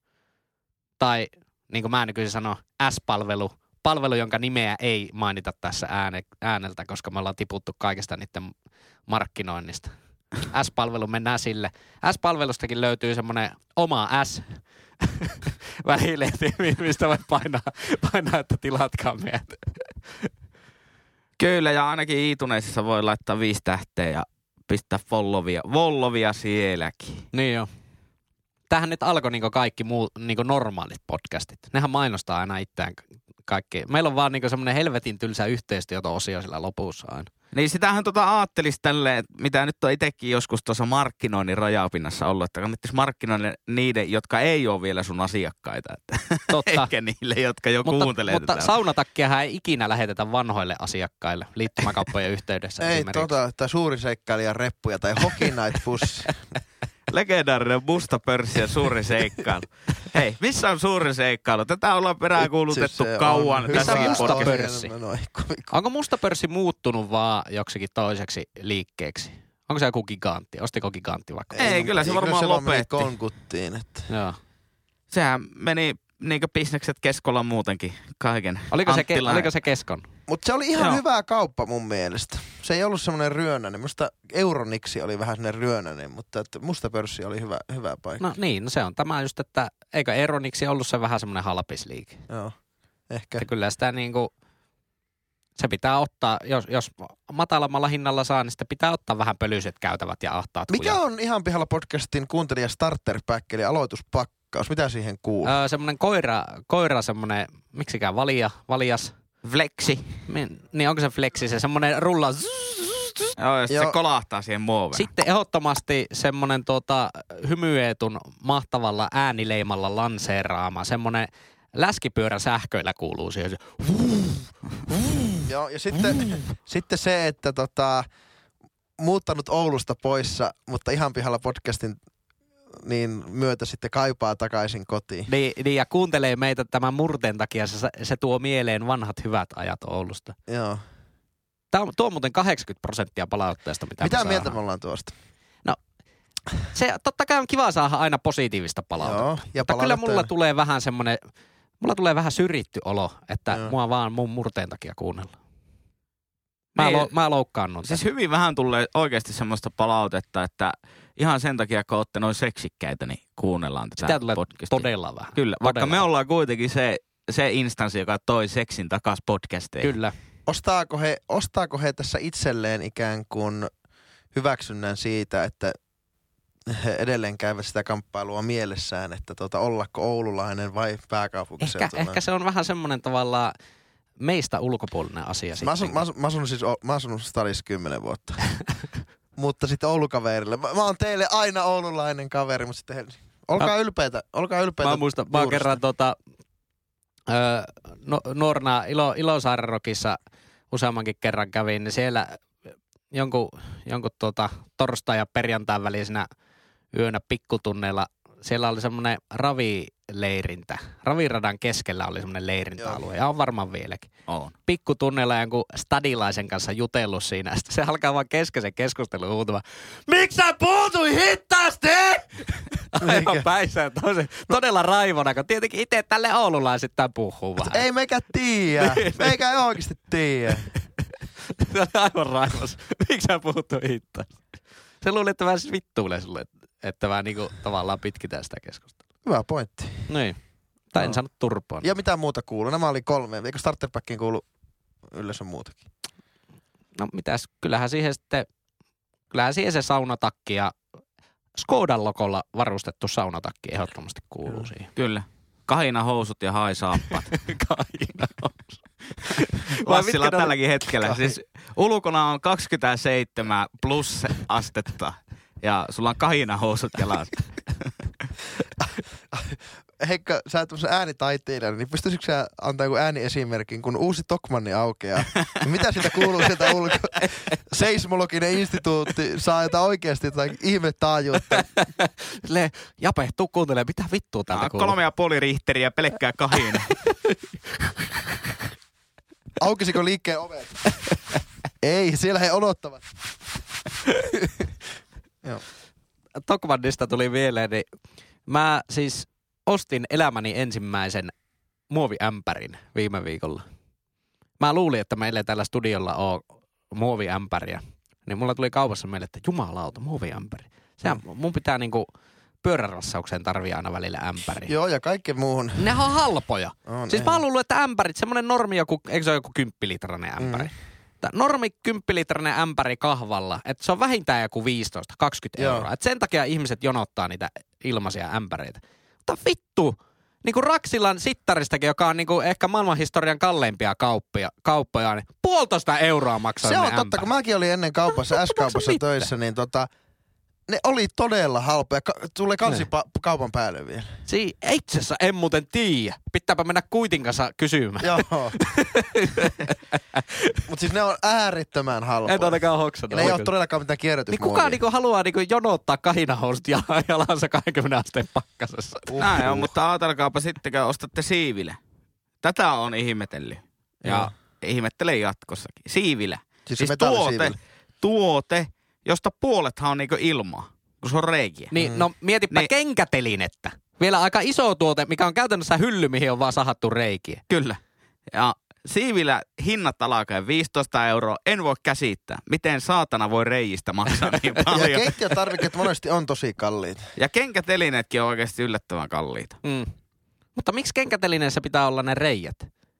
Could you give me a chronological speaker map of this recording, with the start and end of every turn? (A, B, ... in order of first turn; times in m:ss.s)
0:01.0-0:08.6 A
0:09.1-0:20.3 A
0:21.4-0:27.3 B
0:27.3-0:27.7 A
0:28.7-0:37.3 A
0:37.5-0:48.7 B
0:46.5-0:46.9 A
0:47.8-0:53.4 A
0:52.8-0:56.6 C
0:57.1-1:04.7 B
1:02.4-1:05.7 C
1:03.7-1:04.9 A
1:05.7-1:11.8 A
1:11.5-1:14.1 C
1:11.6-1:13.1 B
1:14.1-1:14.4 A
1:15.1-1:19.5 B
1:18.7-1:20.1 A
1:20.3-1:28.3 C
1:28.2-1:32.2 A
1:32.3-1:32.6 C
1:33.1-1:33.5 C
1:33.4-1:34.3 A
1:35.6-1:41.0 A
1:40.7-1:45.6 C
1:45.4-1:49.1 A
1:49.4-1:50.2 B
1:50.3-1:53.3 A
1:53.4-1:55.1 B
1:53.7-1:54.0 C
1:54.9-2:05.4 A
2:05.5-2:08.0 C
2:09.0-2:12.0 C
2:12.7-2:15.3 C
2:15.3-2:20.4 A
2:20.5-2:20.8 C
2:21.7-2:24.6 A
2:24.0-2:25.1 C
2:26.7-2:31.2 A
2:29.0-2:30.3 C
2:31.8-2:35.4 A
2:36.8-2:37.1 B
2:36.8-2:38.0 A
2:37.8-2:49.9 B
2:44.0-2:46.0 A
2:49.8-2:50.2 A
2:50.5-2:53.7 C
2:54.3-2:55.8 C
2:56.7-3:02.2 C
3:01.6-3:03.5 A
3:04.2-3:06.0 A
3:05.6-3:08.6 C
3:09.4-3:15.8 C
3:14.8-3:16.2 A
3:17.3-3:20.2 A
3:20.7-3:22.5 A
3:23.1-3:26.3 A
3:26.9-3:34.1 A
3:34.3-3:34.5 B
3:34.6-3:47.8 A
3:43.0-3:43.4 C
3:47.6-3:50.7 C
3:48.8-3:49.4 A
3:51.5-3:54.4 A
3:55.0-3:59.0 A
3:59.2-4:00.1 C
4:00.1-4:00.4 A
4:00.9-4:01.9 A
4:01.8-4:04.5 C
4:05.1-4:05.8 C
4:07.0-4:08.5 A
4:09.3-4:10.8 A
4:11.6-4:14.9 A
4:15.0-4:17.5 B
4:17.3-4:20.5 A
4:19.1-4:27.9 B
4:28.8-4:41.7 C
4:37.2-4:37.5 A
4:41.5-4:45.0 A
4:44.5-4:47.0 B
4:49.6-4:50.8 C
4:51.8-4:53.8 C
4:56.4-4:57.9 A
4:58.5-5:01.3 A
5:01.9-5:03.6 A
5:04.6-5:12.1 A
5:12.6-5:14.7 A
5:14.7-5:16.0 C
5:15.8-5:37.3 A
5:16.9-5:17.4 C
5:20.4-5:20.7 C
5:25.6-5:25.9 C
5:36.6-5:39.9 C
5:38.3-5:39.3 A
5:40.7-5:44.2 C
5:44.3-5:50.6 A
5:48.0-5:48.6 C
5:50.7-5:54.8 C
5:52.3-5:53.5 A
5:54.3-5:59.1 A
5:59.1-5:59.7 C
5:59.2-6:01.8 B
6:02.4-6:03.6 B
6:04.0-6:04.3 C
6:04.0-6:04.3 A
6:04.6-6:11.8 B
6:06.7-6:07.6 C
6:11.7-6:17.4 A
6:11.8-6:12.0 C
6:17.5-6:25.7 B
6:24.7-6:27.0 C
6:27.2-6:29.6 B
6:29.6-6:29.9 A
6:30.6-6:32.7 A